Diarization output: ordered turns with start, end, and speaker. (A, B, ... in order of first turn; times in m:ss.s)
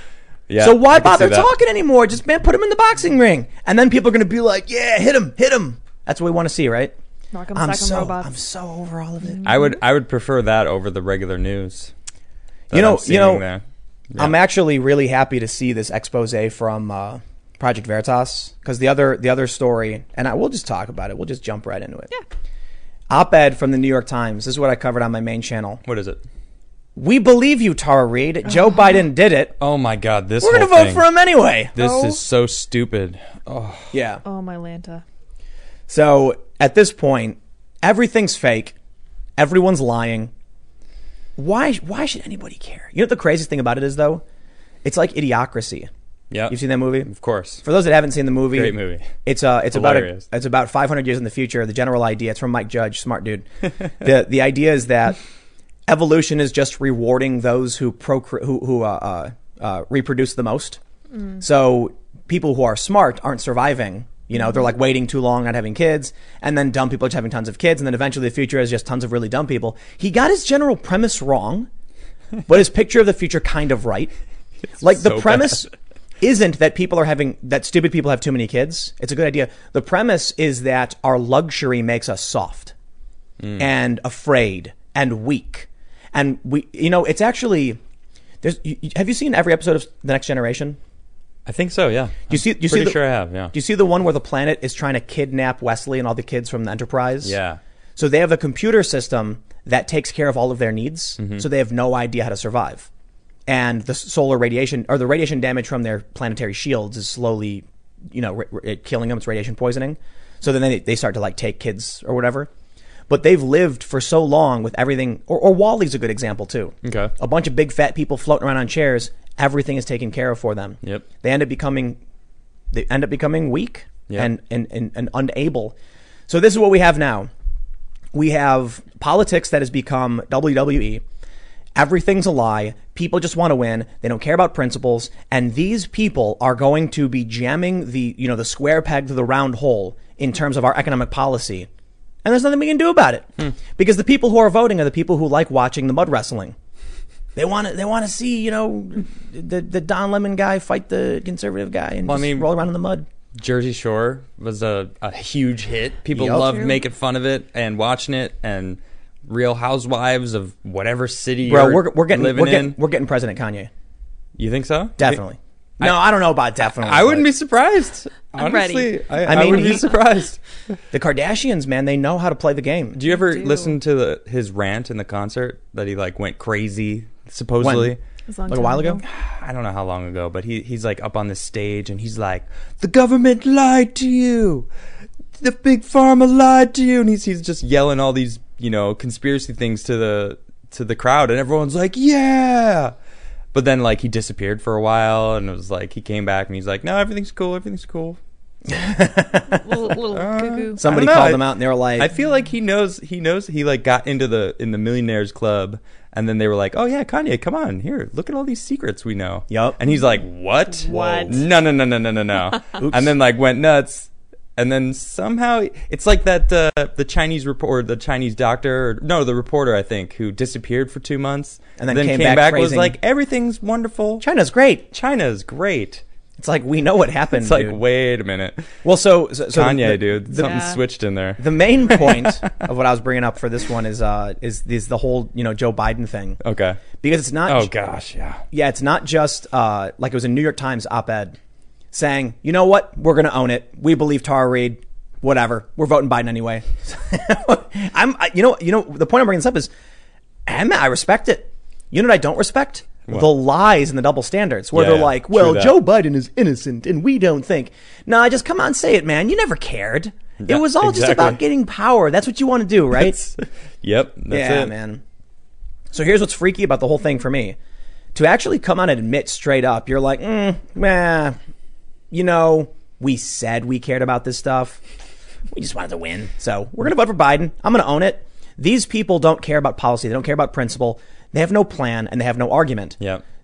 0:00.5-0:01.5 A
0:00.6-0:06.9 B
0:07.3-0:08.3 C
0:07.5-0:09.7 B
0:09.4-0:11.9 A
0:12.7-0:13.4 B
0:12.7-0:14.4 A
0:14.2-0:22.1 B
0:23.1-0:25.8 B
0:25.8-0:26.2 A
0:27.0-0:29.5 B
0:29.6-0:31.1 A
0:30.4-0:31.9 B
0:31.8-0:33.9 A
0:31.8-0:32.2 C
0:33.9-0:34.2 B
0:34.2-0:35.0 C
0:35.9-0:38.8 B
0:39.4-0:40.3 B
0:41.4-0:44.2 B
0:44.8-0:45.9 B
0:46.3-0:47.6 A
0:46.5-0:47.1 B
0:47.6-0:55.2 B
0:48.5-0:49.1 A
0:49.7-0:50.2 A
0:55.9-1:00.8 B
1:01.4-1:11.7 B
1:12.5-1:14.1 B
1:14.8-1:22.7 B
1:14.8-1:15.6 A
1:23.6-1:27.8 B
1:28.4-1:30.8 B
1:31.4-1:33.5 A
1:32.3-1:37.4 B
1:37.2-1:37.6 A
1:38.0-1:42.9 B
1:41.2-1:41.4 A
1:43.5-1:52.5 B
1:53.1-2:02.0 B
1:56.8-1:57.1 A
2:02.7-2:05.8 B
2:06.3-2:07.3 B
2:08.1-2:11.0 B
2:11.8-2:21.7 B
2:22.2-2:26.6 B
2:27.4-2:33.1 B
2:32.0-2:32.5 A
2:33.4-2:42.8 A
2:36.1-2:36.6 B
2:36.4-2:36.8 C
2:41.4-2:43.7 B
2:44.4-2:45.2 A
2:45.0-2:47.3 B
2:46.6-2:50.4 A
2:48.4-2:49.7 C
2:49.2-2:49.9 B
2:50.9-2:53.0 B
2:52.9-2:58.0 A
2:53.2-2:53.8 C
2:57.6-2:58.0 B
2:58.3-2:59.0 C
2:58.5-2:59.0 B
2:59.0-3:04.7 A
3:05.4-3:12.9 A
3:13.5-3:18.2 A
3:18.7-3:19.9 B
3:19.5-3:21.0 C
3:20.1-3:44.2 A
3:20.8-3:22.1 B
3:29.5-3:29.8 B
3:30.8-3:31.4 C
3:30.9-3:31.3 B
3:32.8-3:33.1 B
3:41.8-3:43.0 B
3:44.2-3:44.9 B
3:44.9-3:46.0 A
3:46.4-3:47.8 B
3:47.3-3:48.7 A
3:48.8-3:50.7 B
3:49.5-3:52.5 A
3:50.4-3:50.8 C
3:51.4-3:56.4 B
3:56.4-3:56.8 A
3:57.0-3:57.7 B
3:57.5-3:58.4 A
3:58.5-4:01.4 B
4:01.9-4:09.7 B
4:10.4-4:23.2 B
4:14.7-4:15.8 A
4:20.4-4:21.4 A
4:22.9-4:24.7 A
4:24.3-4:25.0 B
4:25.9-4:27.6 B
4:28.1-4:31.4 B
4:32.1-4:34.8 B
4:35.5-4:43.0 B